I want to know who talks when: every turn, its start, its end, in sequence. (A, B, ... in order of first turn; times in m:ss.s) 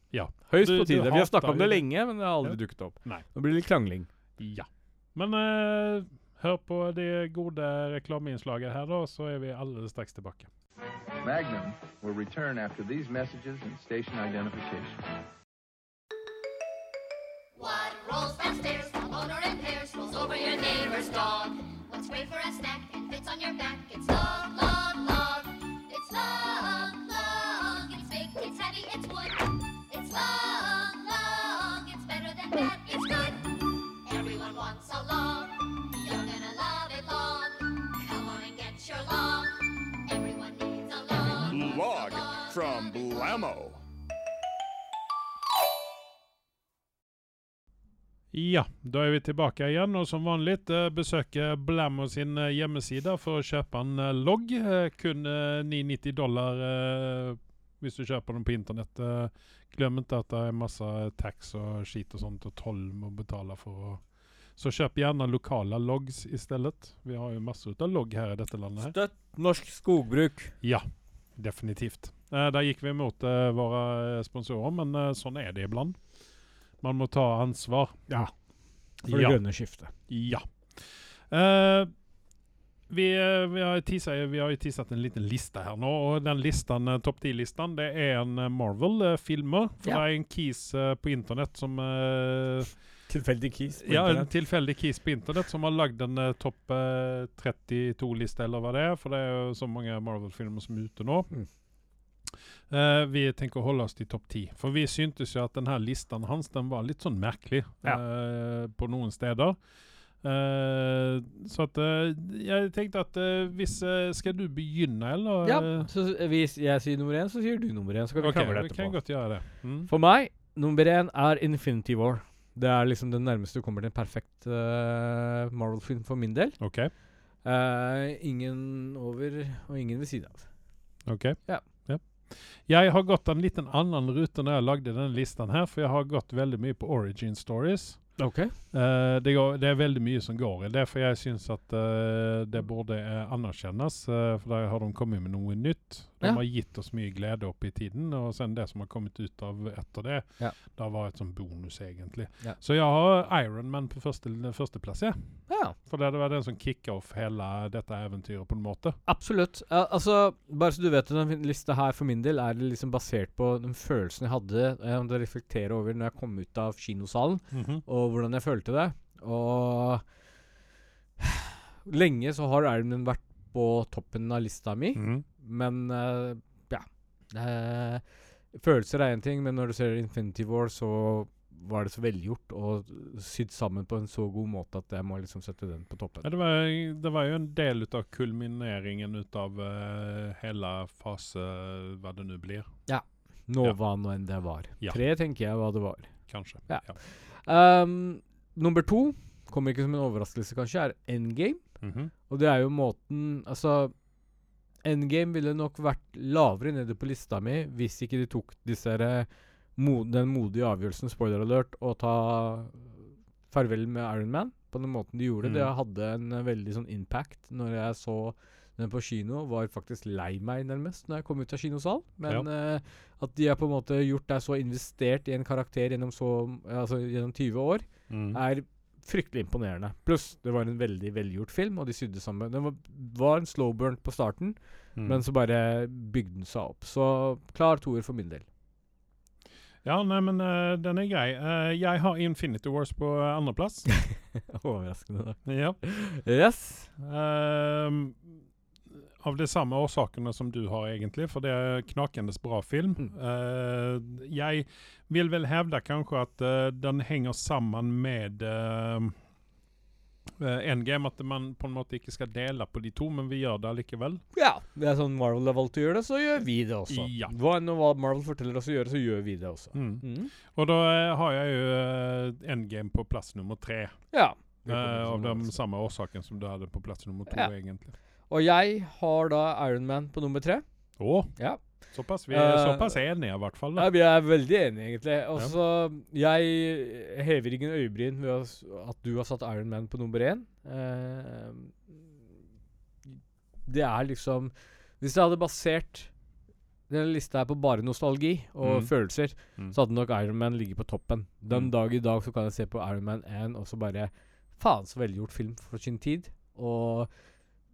0:00.1-0:01.9 A
0:00.4-0:04.1 B
0:02.4-0:03.2 A
0:04.4-0:10.5 A
0:11.2-0:15.1 C
0:17.5-0:43.4 D
0:41.4-0:43.8 C
0:48.3-1:04.0 A
1:04.6-1:08.9 A
1:08.8-1:10.5 B
1:10.6-1:16.0 A
1:16.8-1:18.0 A
1:19.0-1:19.9 B
1:19.1-1:19.4 A
1:20.1-1:21.9 A
1:22.9-1:32.7 A
1:33.1-1:34.3 B
1:33.8-1:41.3 A
1:42.7-1:49.6 A
1:50.2-1:55.9 A
1:55.4-1:59.0 B
1:58.2-1:59.9 A
1:59.9-2:06.6 B
2:06.6-2:06.9 A
2:07.4-2:10.5 B
2:11.0-2:18.2 A
2:18.2-2:18.5 B
2:18.7-2:35.2 A
2:35.5-2:35.8 B
2:35.8-2:39.0 A
2:39.1-2:50.0 B
2:47.5-2:47.8 A
2:51.2-3:06.2 B
2:54.9-2:55.2 A
3:06.2-3:12.7 A
3:12.9-3:16.1 B
3:16.3-3:17.0 A
3:16.7-3:21.6 B
3:21.8-3:22.1 A
3:22.3-3:23.9 B
3:24.8-3:58.4 B
3:35.4-3:35.7 A
3:48.1-3:48.4 A
3:55.0-3:55.2 A
3:59.8-4:03.9 A
4:03.9-4:06.9 B
4:05.4-4:05.8 A
4:07.0-4:08.3 A
4:09.2-4:19.1 A
4:20.4-4:24.2 A
4:24.3-4:30.3 B
4:26.9-4:27.3 A
4:29.7-4:34.0 A
4:34.1-4:35.5 B
4:34.7-4:37.9 A
4:38.3-4:40.6 B
4:41.0-4:41.3 A
4:41.4-4:41.6 B
4:41.9-4:43.9 A
4:42.3-4:43.0 B
4:43.8-4:52.0 B
4:53.6-4:56.1 B
4:56.9-5:07.1 B
4:58.6-4:58.9 A